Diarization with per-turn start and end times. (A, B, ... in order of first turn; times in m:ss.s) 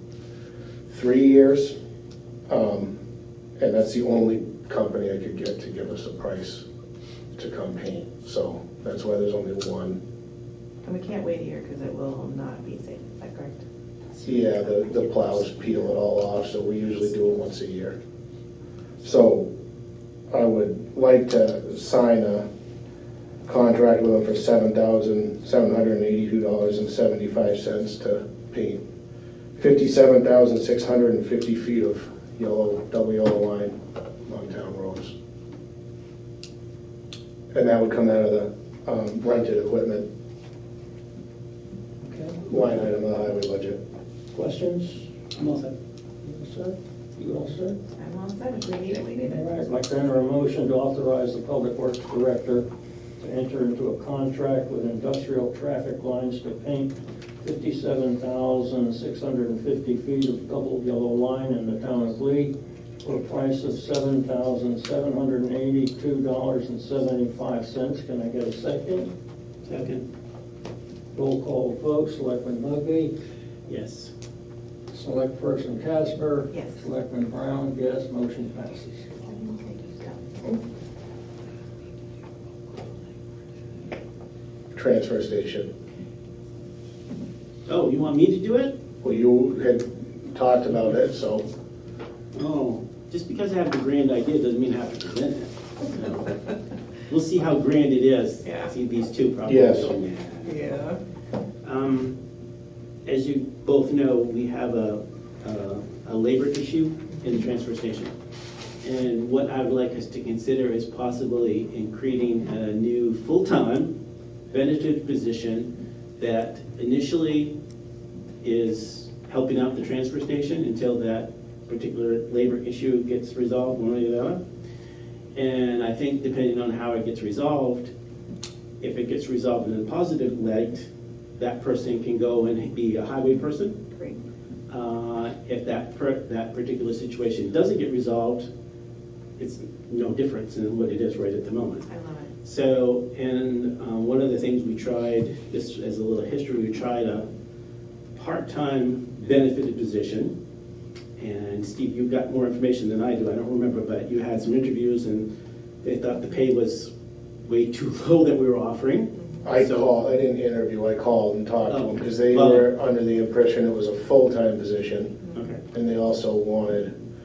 0:00.9-0:01.8 A
0:02.5-0:02.9 A
0:03.6-0:06.6 A
0:07.4-0:10.0 A
0:10.8-0:13.6 B
0:14.2-0:14.8 B
0:14.2-0:18.0 A
0:19.0-0:19.5 A
0:20.3-0:22.4 A
0:23.4-0:28.8 A
0:29.6-0:35.1 A
0:37.5-0:40.0 A
0:42.0-0:42.6 C
0:42.4-0:43.8 A
0:44.3-0:45.1 C
0:45.3-0:45.7 D
0:46.2-0:47.8 C
0:48.0-0:49.7 B
0:49.2-0:52.6 C
0:53.2-1:09.1 C
1:09.6-1:10.0 D
1:11.1-1:13.1 C
1:13.7-1:14.1 D
1:14.9-1:19.1 C
1:16.5-1:16.8 B
1:19.2-1:20.6 B
1:24.7-1:25.7 A
1:27.6-1:28.7 D
1:29.0-1:31.4 A
1:32.3-1:36.4 D
1:37.1-1:40.6 D
1:39.5-1:39.9 A
1:40.4-1:41.0 B
1:41.6-1:42.2 D
1:43.0-1:48.1 D
1:48.8-1:53.9 D
1:54.5-1:57.5 D
1:58.4-2:04.4 D
2:05.3-2:07.9 D
2:08.8-2:13.8 D
2:14.7-2:18.5 D
2:19.4-2:21.9 D
2:21.9-2:22.3 B
2:22.4-2:27.3 D
2:28.1-2:30.3 D
2:31.2-2:35.3 D
2:35.8-2:36.9 D
2:37.5-2:39.9 D
2:39.4-2:45.2 A
2:41.7-2:42.6 D
2:45.3-2:45.6 D
2:45.7-2:46.9 A